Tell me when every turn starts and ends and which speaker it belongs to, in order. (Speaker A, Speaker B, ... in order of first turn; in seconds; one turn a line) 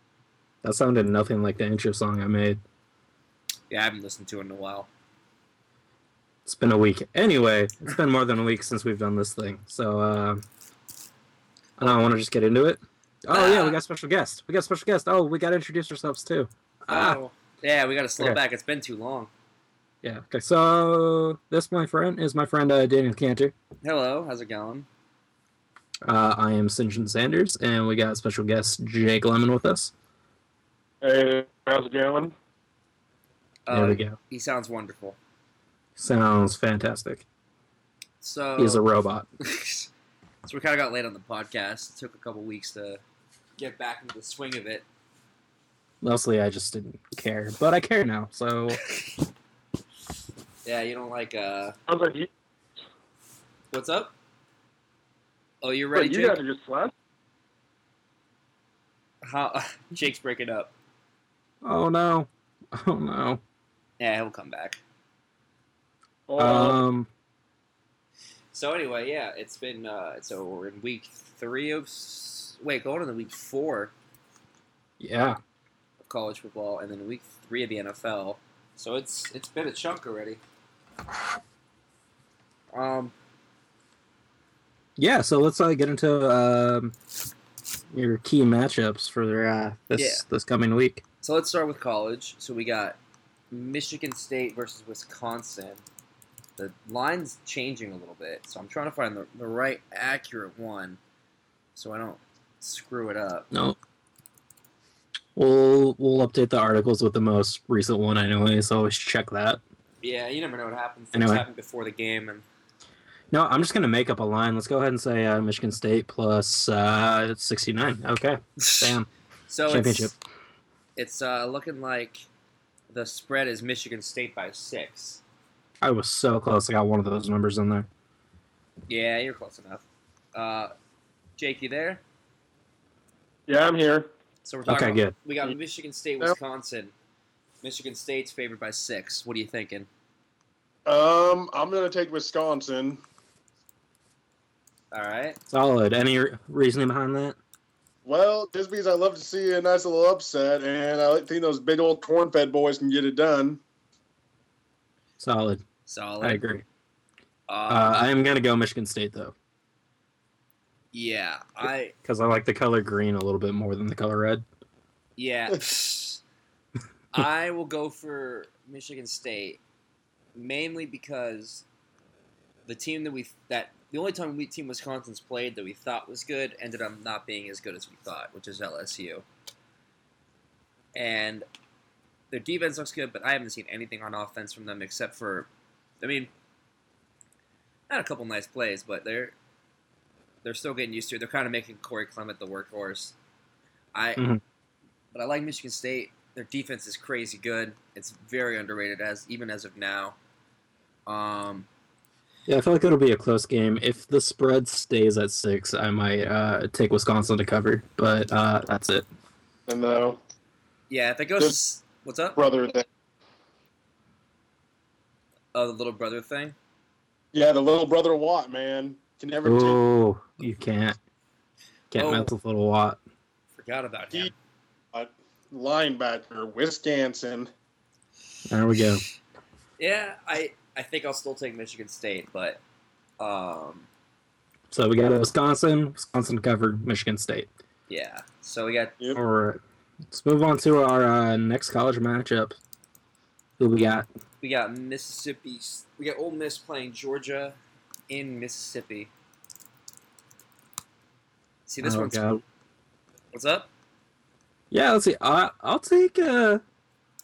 Speaker A: 0.6-2.6
Speaker B: 3.7-4.9
Speaker A: 6.5-10.4
Speaker A: 11.8-17.2
Speaker B: 13.3-13.8
Speaker B: 16.9-19.3
Speaker A: 20.0-23.5
Speaker B: 23.8-24.9
Speaker A: 26.0-29.9
Speaker C: 31.0-32.3
Speaker B: 33.7-35.2
Speaker A: 33.7-34.1
Speaker A: 36.0-37.2
Speaker B: 38.2-38.8
Speaker A: 38.6-39.3
Speaker B: 39.4-39.9
Speaker B: 40.4-43.0
Speaker B: 43.6-44.8
Speaker A: 46.0-48.8
Speaker B: 50.6-51.8
Speaker C: 51.9-52.3
Speaker B: 53.7-54.1
Speaker B: 55.6-56.4
Speaker C: 55.9-56.9
Speaker B: 59.2-60.7
Speaker A: 61.6-63.4
Speaker B: 64.0-64.8
Speaker C: 66.3-66.8
Speaker A: 66.4-67.1
Speaker B: 68.5-73.9
Speaker A: 75.0-75.4
Speaker B: 76.0-80.4
Speaker B: 82.7-83.1
Speaker A: 85.0-86.9
Speaker A: 87.9-91.0
Speaker B: 90.0-90.2
Speaker B: 91.2-93.0
Speaker B: 93.5-95.8
Speaker B: 96.6-101.0
Speaker B: 101.7-103.5
Speaker A: 103.5-103.8
Speaker A: 105.3-109.6
Speaker B: 110.0-112.4
Speaker A: 111.1-111.4
Speaker A: 113.3-119.1
Speaker B: 118.6-118.9
Speaker B: 119.5-120.1
Speaker A: 119.7-120.2
Speaker B: 121.0-122.2
Speaker B: 122.9-125.2
Speaker A: 125.8-127.9
Speaker B: 128.9-130.7
Speaker B: 131.4-132.0
Speaker C: 133.5-134.1
Speaker B: 134.4-136.9
Speaker A: 134.7-135.1
Speaker B: 137.6-139.9
Speaker C: 140.8-143.0
Speaker B: 144.9-145.4
Speaker A: 145.5-147.4
Speaker C: 148.0-153.6
Speaker A: 155.2-155.6
Speaker B: 155.8-156.4
Speaker A: 156.2-156.6
Speaker B: 157.5-158.0
Speaker A: 157.7-159.3
Speaker B: 160.9-161.9
Speaker A: 162.0-164.4
Speaker B: 165.2-166.2
Speaker B: 167.1-169.6
Speaker B: 170.3-171.6
Speaker B: 172.7-179.2
Speaker B: 180.9-181.4
Speaker B: 182.3-185.5
Speaker B: 186.0-186.3
Speaker B: 187.9-189.3
Speaker B: 190.4-193.1
Speaker B: 193.9-194.2
Speaker A: 194.2-194.4
Speaker B: 195.1-200.2
Speaker B: 201.1-201.7
Speaker A: 202.5-209.1
Speaker C: 209.7-210.2
Speaker B: 210.9-212.4
Speaker C: 212.4-212.8
Speaker B: 215.5-216.6
Speaker C: 217.3-219.8
Speaker A: 219.4-221.0
Speaker A: 221.9-223.0
Speaker B: 221.9-222.3
Speaker B: 223.6-224.3
Speaker C: 224.9-227.5
Speaker A: 228.5-229.0
Speaker B: 229.8-232.6
Speaker B: 233.2-233.9
Speaker A: 234.7-237.5
Speaker B: 237.9-239.0
Speaker A: 239.1-242.6
Speaker A: 243.6-244.1
Speaker B: 244.4-247.6
Speaker B: 248.1-249.1
Speaker B: 251.7-252.2
Speaker A: 251.8-252.4
Speaker B: 253.3-253.7
Speaker A: 254.7-256.6